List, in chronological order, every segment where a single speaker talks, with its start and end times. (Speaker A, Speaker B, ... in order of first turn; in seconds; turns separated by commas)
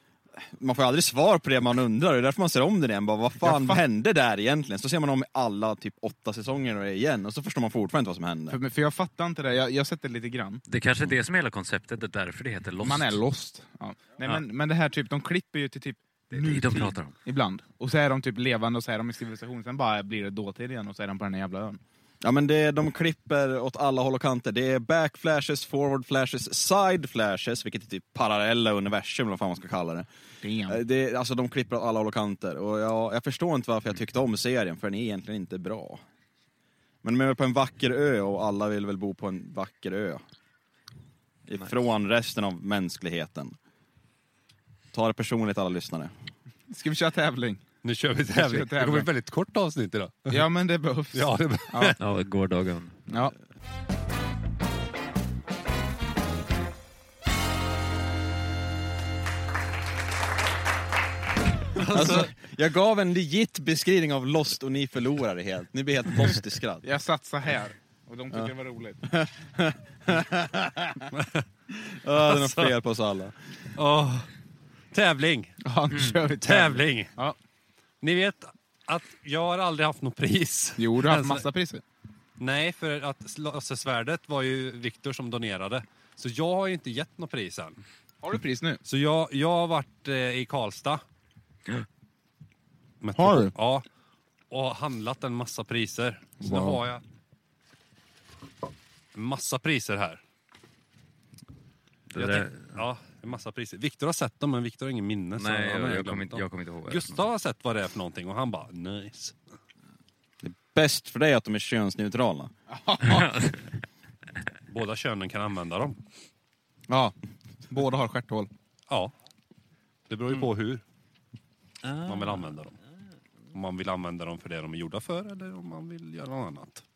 Speaker A: 0.4-8.6, Speaker B: 3.4-3.8, Speaker B: 8.5-10.6, Speaker C: 10.7-13.2, Speaker B: 12.8-21.8, Speaker C: 16.3-17.1, Speaker A: 22.2-30.1, Speaker B: 30.4-30.8, Speaker A: 30.7-36.0, Speaker A: 37.0-40.2, Speaker A: 41.5-43.6, Speaker A: 44.9-46.1, Speaker B: 46.7-47.6, Speaker D: 47.8-50.4, Speaker B: 48.3-49.1, Speaker B: 50.3-52.0, Speaker D: 51.1-52.0, Speaker C: 52.0-53.0, Speaker B: 53.1-53.4, Speaker D: 61.8-62.3, Speaker A: 61.9-66.8, Speaker B: 66.8-69.1, Speaker A: 69.0-71.1, Speaker D: 71.2-71.4, Speaker A: 71.7-73.4, Speaker D: 72.2-72.7, Speaker D: 73.7-74.3, Speaker D: 74.9-75.6, Speaker B: 75.6-77.4, Speaker D: 76.4-77.1, Speaker D: 78.0-81.5, Speaker B: 80.8-81.8, Speaker D: 82.4-87.8, Speaker B: 88.2-88.8, Speaker D: 88.8-91.0, Speaker D: 93.0-93.8, Speaker B: 93.2-93.5, Speaker D: 94.5-97.0, Speaker B: 96.4-96.8, Speaker D: 99.1-100.2, Speaker C: 102.1-102.8, Speaker D: 102.2-109.3, Speaker C: 105.4-107.2, Speaker A: 110.4-112.5, Speaker B: 112.7-113.4, Speaker C: 113.0-113.7, Speaker D: 114.7-116.0, Speaker B: 116.9-117.2, Speaker B: 117.7-118.5, Speaker D: 120.1-120.8, Speaker C: 121.8-122.6, Speaker D: 122.1-122.8, Speaker D: 123.5-126.8